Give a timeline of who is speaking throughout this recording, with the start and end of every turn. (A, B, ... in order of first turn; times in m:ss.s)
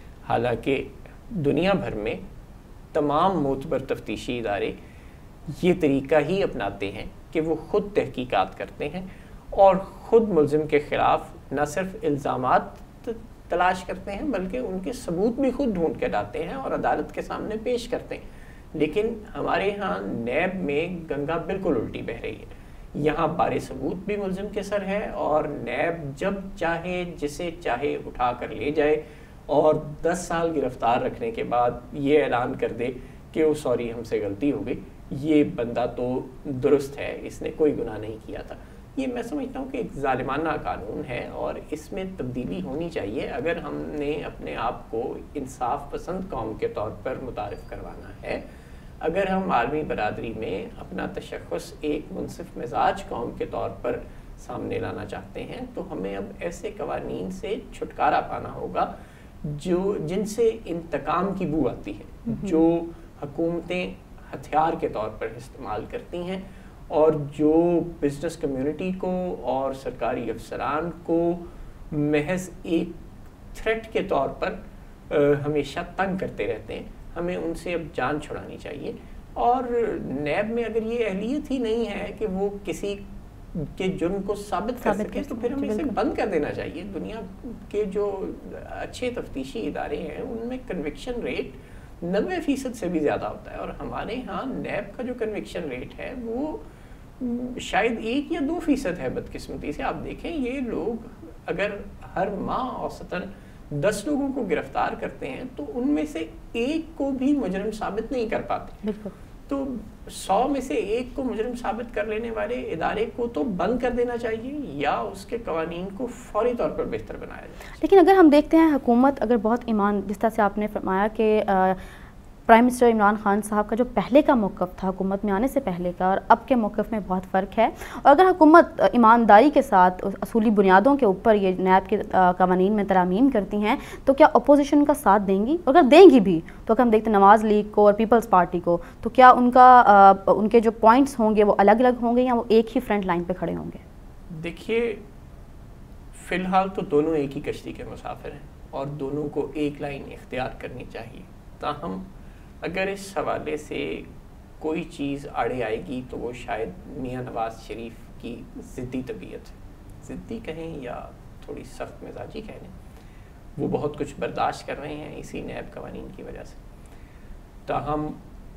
0:00.2-0:02.2 A
0:02.9-0:04.8 A
0:05.5-0:18.2 A
0:18.7-0:48.4 A
0:49.0-0:58.9 A
0:59.4-1:13.0 A
1:02.3-1:02.5 B
1:13.5-1:36.6 A
1:24.8-1:26.0 B
1:37.2-1:48.8 A
1:48.8-1:49.1 B
1:49.5-1:57.8 A
1:57.8-2:01.8 B
2:02.5-2:23.8 B
2:24.3-2:25.0 A
2:26.1-2:32.1 A
2:32.6-2:34.1 A
2:34.6-2:42.7 A
2:43.6-2:46.6 A
2:47.7-2:48.2 A